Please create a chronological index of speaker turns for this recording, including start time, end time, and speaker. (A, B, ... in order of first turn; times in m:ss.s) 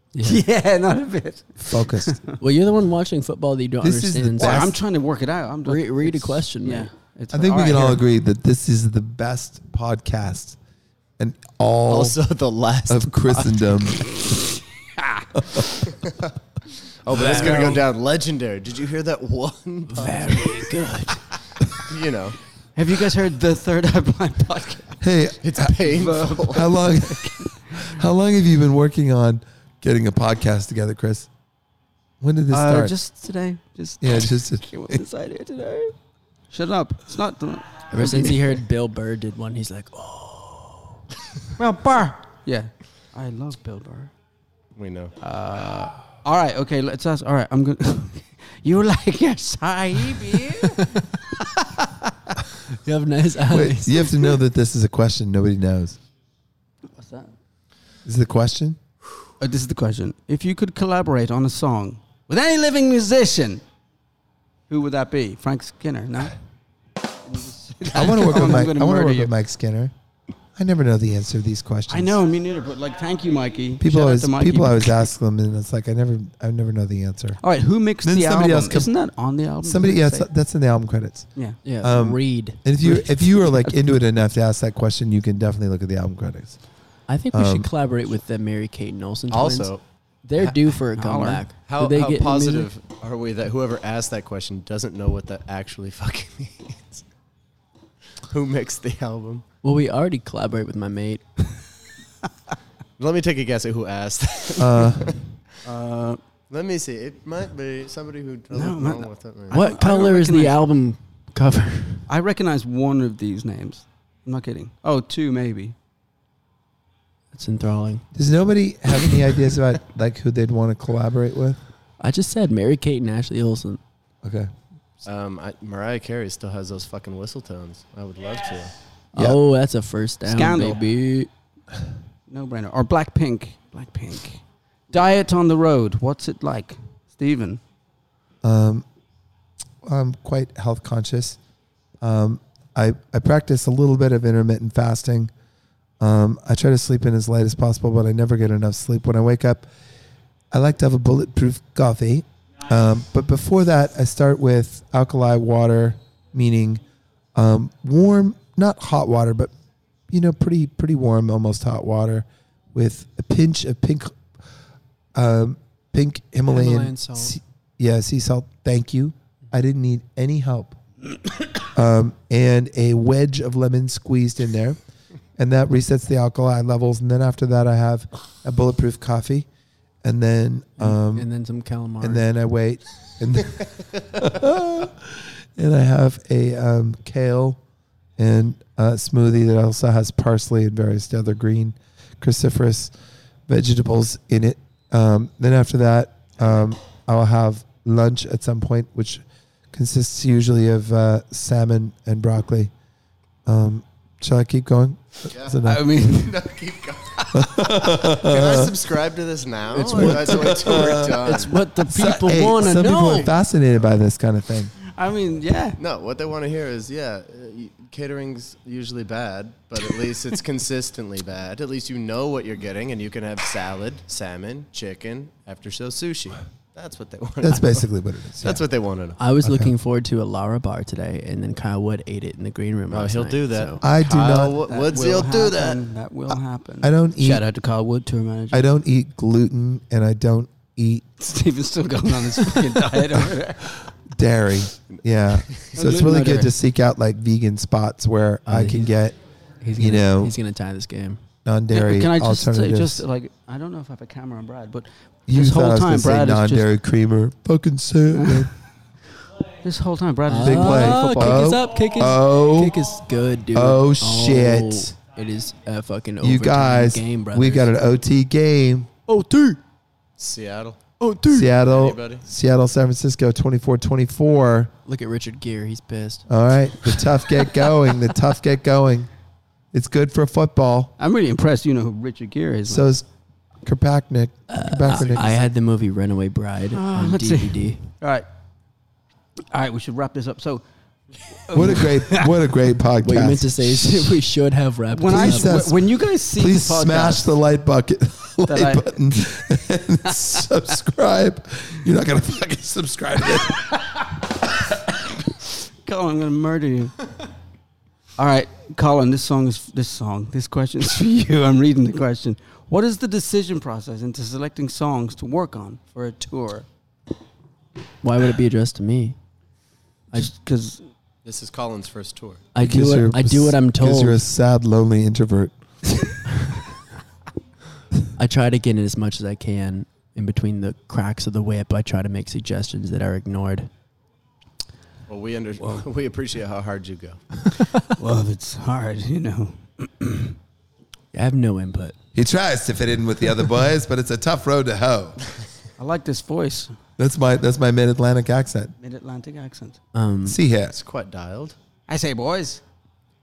0:00.1-0:00.4 A
0:00.2-0:02.4 B
0:01.6-0:02.2 C
0:02.4-0:04.7 A
0:03.8-0:04.7 C
0:04.4-0:08.0 B
0:05.6-0:06.9 A
0:07.3-0:10.6 C
0:11.2-0:12.2 C
0:11.9-0:14.1 D
0:12.9-0:14.1 C
0:15.0-0:15.3 B
0:15.3-0:15.7 C
0:17.0-0:20.8 D
0:17.1-0:17.8 B
0:17.3-0:17.7 A
0:19.9-0:21.2 A
0:21.7-0:22.4 D
0:22.8-0:25.0 B
0:25.0-0:25.8 C
0:25.4-0:26.7 D
0:25.9-0:27.9 B
0:26.5-0:31.3 C
0:32.2-0:32.9 C
0:32.5-0:36.0 B
0:34.0-0:34.7 C
0:36.5-0:38.4 B
0:37.9-0:41.0 A
0:41.6-0:44.1 B
0:44.8-0:45.1 D
0:45.2-0:52.1 B
0:52.7-0:54.2 A
0:53.5-0:56.0 C
0:56.9-0:57.3 B
0:58.0-0:58.8 C
0:59.4-1:03.6 B
1:04.7-1:06.4 B
1:07.2-1:09.3 B
1:07.9-1:09.9 C
1:10.6-1:12.2 C
1:11.9-1:15.1 B
1:13.8-1:17.4 C
1:17.4-1:20.3 B
1:18.0-1:18.9 C
1:19.6-1:21.3 C
1:21.6-1:22.7 A
1:21.8-1:26.6 C
1:27.1-1:29.7 A
1:27.3-1:27.7 C
1:29.3-1:29.8 D
1:30.2-1:32.7 A
1:31.0-1:31.4 B
1:31.7-1:37.0 D
1:38.3-1:39.4 D
1:39.6-1:41.2 A
1:43.0-1:45.2 D
1:44.6-1:45.2 C
1:45.6-1:46.2 B
1:46.5-1:49.6 D
1:48.5-1:50.6 B
1:49.5-1:52.1 A
1:52.1-1:55.8 B
1:57.3-1:58.0 A
1:58.2-2:01.6 C
2:02.0-2:03.8 A
2:04.2-2:04.5 C
2:05.0-2:08.7 D
2:09.1-2:11.3 A
2:10.3-2:10.8 B
2:12.3-2:17.6 B
2:18.4-2:18.8 C
2:19.8-2:21.4 C
2:22.0-2:25.3 C
2:26.0-2:29.7 C
2:30.5-2:36.8 C
2:37.4-2:39.5 C
2:40.1-2:44.2 C
2:45.2-2:50.8 C
2:46.5-2:47.4 A
2:51.7-2:54.8 C
2:55.4-2:59.5 C
3:00.0-3:01.3 C
3:00.8-3:02.2 A
3:02.0-3:07.6 C
3:08.2-3:12.9 C
3:13.5-3:22.7 C
3:23.5-3:25.8 C
3:25.3-3:31.6 D
3:25.6-3:26.4 B
3:27.3-3:28.8 C
3:29.7-3:33.3 A
3:30.0-3:34.7 C
3:34.9-3:35.8 B
3:35.8-3:49.2 D
3:47.4-3:48.7 C
3:49.2-3:53.8 A
3:49.4-3:49.8 C
3:52.9-3:55.8 D
3:53.8-3:54.6 C
3:54.6-3:58.7 B
3:56.8-3:57.4 C
3:58.5-4:01.1 C
4:01.2-4:03.7 B
4:04.1-4:09.2 C
4:04.9-4:05.7 D
4:05.8-4:06.5 B
4:08.5-4:08.9 A
4:09.6-4:11.2 A
4:09.8-4:10.4 C
4:11.4-4:13.0 C
4:11.7-4:16.7 B
4:15.3-4:18.5 C
4:18.1-4:18.5 B
4:19.6-4:21.5 B
4:20.3-4:27.7 A
4:20.4-4:22.7 C
4:23.5-4:24.9 C
4:26.2-4:28.9 C
4:29.1-4:29.6 A
4:30.2-4:30.8 D
4:31.0-4:31.5 A
4:31.3-4:34.7 C
4:31.6-4:32.2 D
4:34.8-4:36.3 A
4:36.3-4:39.1 C
4:39.7-4:40.9 C
4:41.0-4:42.9 B
4:42.7-4:43.1 C
4:43.6-4:45.4 C
4:44.5-4:47.8 A
4:46.7-4:48.3 B
4:49.5-4:50.6 B
4:51.3-4:52.3 B
4:51.5-4:54.2 C
4:53.0-4:55.6 A
4:54.9-4:57.3 B
4:55.1-4:55.8 C
4:56.3-5:03.7 C
4:58.4-4:58.9 B
5:05.8-5:07.0 B
5:08.2-5:16.7 B
5:18.0-5:19.2 A
5:20.1-5:20.8 B
5:21.2-5:22.5 D
5:22.6-5:24.3 A
5:22.6-5:25.5 C
5:28.2-5:33.7 A
5:35.1-5:37.2 D
5:35.6-5:35.9 B
5:37.9-5:40.4 B
5:41.1-5:42.0 A
5:42.2-5:45.2 C
5:45.8-5:46.8 B
5:47.0-5:48.7 C
5:48.8-5:49.8 B
5:49.9-5:50.4 A
5:50.3-5:50.8 C
5:50.7-5:51.6 D
5:51.9-5:52.6 B